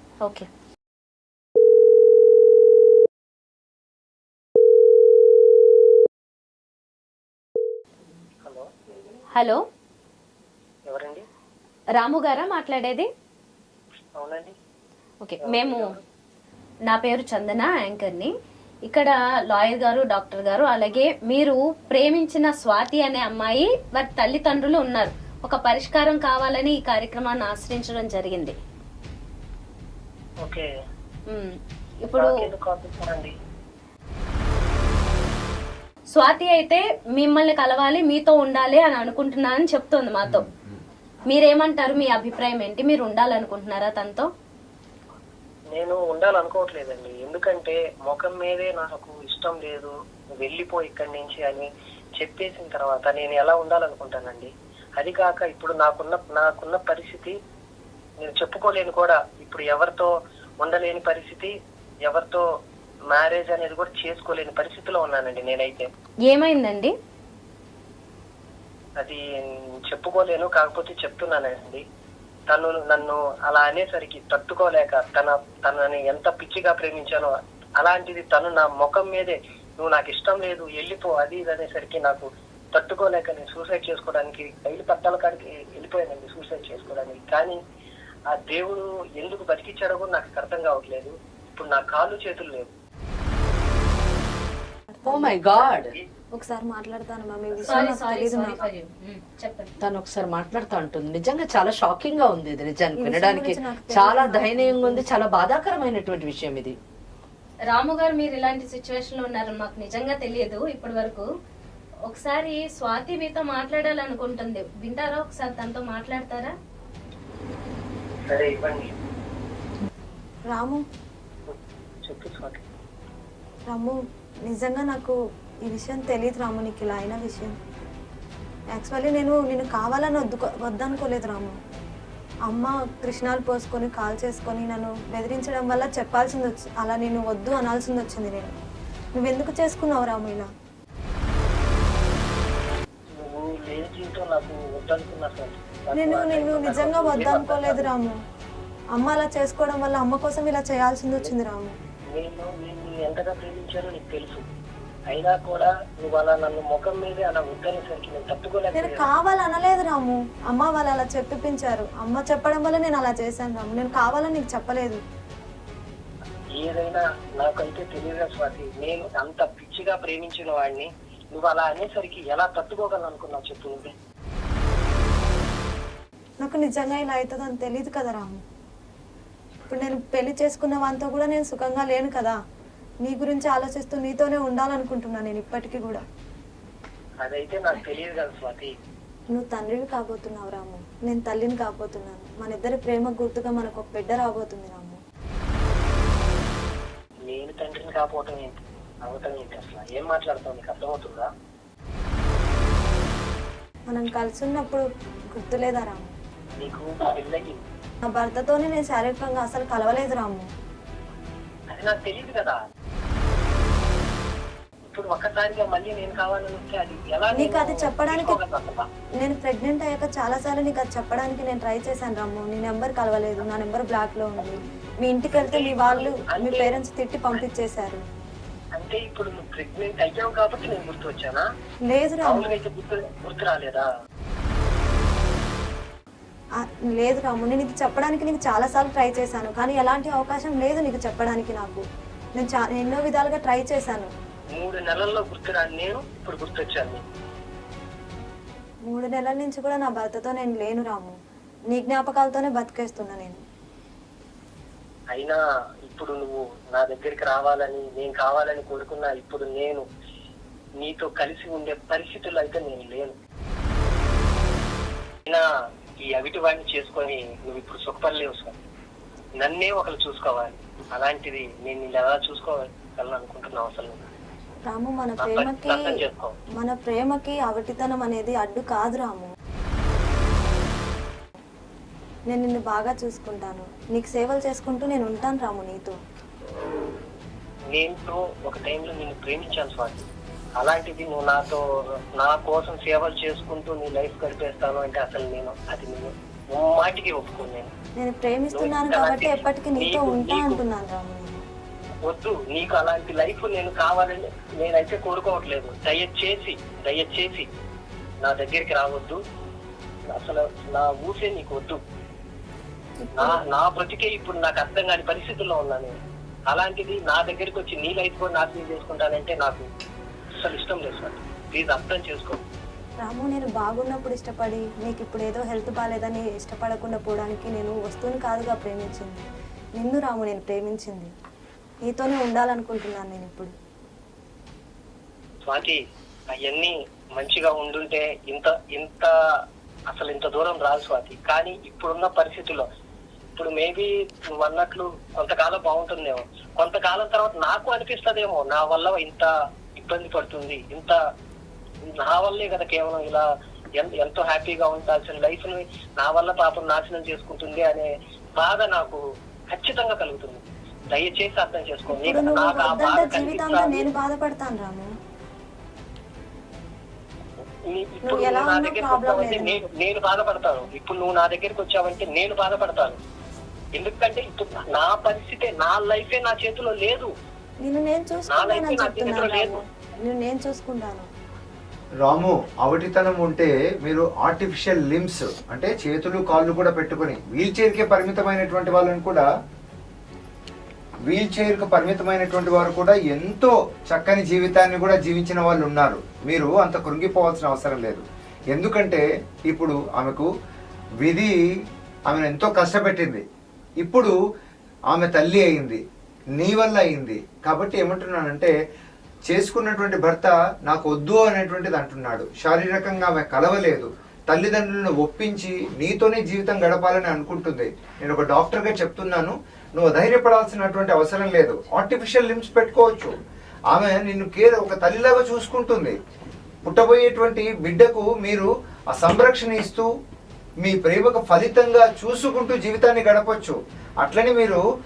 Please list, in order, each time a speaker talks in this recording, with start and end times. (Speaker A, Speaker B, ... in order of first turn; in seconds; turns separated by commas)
Speaker A: 8.4-8.7, Speaker B: 9.3-9.6, Speaker A: 10.9-11.2, Speaker B: 12.0-13.1, Speaker A: 14.2-14.5, Speaker B: 15.2-15.9, Speaker A: 15.4-16.0, Speaker B: 16.9-18.3, Speaker B: 18.9-28.6, Speaker A: 30.4-30.7, Speaker B: 31.3-32.5, Speaker A: 32.1-33.3, Speaker B: 36.1-40.5, Speaker C: 40.2-40.7, Speaker B: 41.3-44.3, Speaker A: 45.7-57.3, Speaker A: 58.2-61.5, Speaker A: 62.0-62.5, Speaker A: 63.1-65.9, Speaker B: 66.3-66.9, Speaker A: 69.0-71.8, Speaker A: 72.5-87.6, Speaker A: 88.3-92.7, Speaker D: 94.9-95.4, Speaker E: 95.0-95.9, Speaker A: 95.7-96.0, Speaker D: 96.4-98.6, Speaker B: 97.7-99.7, Speaker E: 99.8-106.8, Speaker D: 103.0-105.1, Speaker B: 107.7-111.2, Speaker B: 112.1-116.5, Speaker A: 118.3-118.9, Speaker D: 120.5-120.8, Speaker A: 121.5-122.6, Speaker D: 123.7-124.0, Speaker D: 124.5-127.5, Speaker D: 128.7-131.6, Speaker D: 132.5-138.5, Speaker D: 139.2-140.5, Speaker A: 143.2-147.9, Speaker D: 145.9-148.2, Speaker D: 148.9-151.7, Speaker A: 152.1-154.4, Speaker A: 155.1-159.1, Speaker D: 158.7-165.0, Speaker A: 166.5-173.9, Speaker D: 176.4-178.4, Speaker D: 179.7-182.3, Speaker D: 183.0-186.0, Speaker A: 187.2-188.7, Speaker D: 189.3-195.0, Speaker A: 197.3-201.3, Speaker D: 203.9-206.1, Speaker A: 206.6-207.6, Speaker D: 208.0-210.5, Speaker A: 211.7-212.6, Speaker A: 214.9-218.8, Speaker D: 217.3-218.4, Speaker D: 219.2-228.0, Speaker A: 225.4-226.8, Speaker A: 228.8-231.4, Speaker D: 231.9-232.5, Speaker A: 232.2-233.9, Speaker D: 236.6-241.8, Speaker D: 242.4-244.1, Speaker A: 244.5-247.0, Speaker D: 248.9-251.2, Speaker D: 251.7-253.4, Speaker A: 255.1-259.8, Speaker A: 260.8-263.2, Speaker A: 266.0-268.6, Speaker A: 269.4-274.0, Speaker D: 274.7-275.8, Speaker A: 275.2-276.3, Speaker D: 276.6-279.3, Speaker D: 282.3-285.9, Speaker A: 287.7-290.0, Speaker A: 290.6-291.6, Speaker A: 292.1-297.7, Speaker D: 298.0-301.4, Speaker A: 298.5-300.6, Speaker A: 302.0-307.5, Speaker A: 308.2-309.2, Speaker A: 310.1-311.8, Speaker D: 313.0-313.4, Speaker A: 313.2-315.9, Speaker A: 316.5-319.6, Speaker A: 320.4-322.4, Speaker D: 323.0-329.2, Speaker D: 329.8-331.1, Speaker D: 331.9-333.5, Speaker A: 335.4-335.8, Speaker A: 336.3-339.1, Speaker A: 339.9-342.6, Speaker A: 343.4-351.0, Speaker A: 351.9-359.0, Speaker A: 359.5-363.8, Speaker D: 361.9-364.9, Speaker A: 367.7-373.0, Speaker D: 368.0-369.6, Speaker A: 373.7-377.1, Speaker D: 377.6-381.1, Speaker A: 378.3-379.6, Speaker C: 382.0-389.3, Speaker C: 391.1-400.3, Speaker C: 401.0-401.3, Speaker C: 402.1-403.2, Speaker C: 403.8-404.1, Speaker C: 404.9-405.8, Speaker C: 406.4-408.6, Speaker C: 409.3-423.1, Speaker C: 423.7-426.0, Speaker C: 426.6-429.9, Speaker C: 430.6-434.6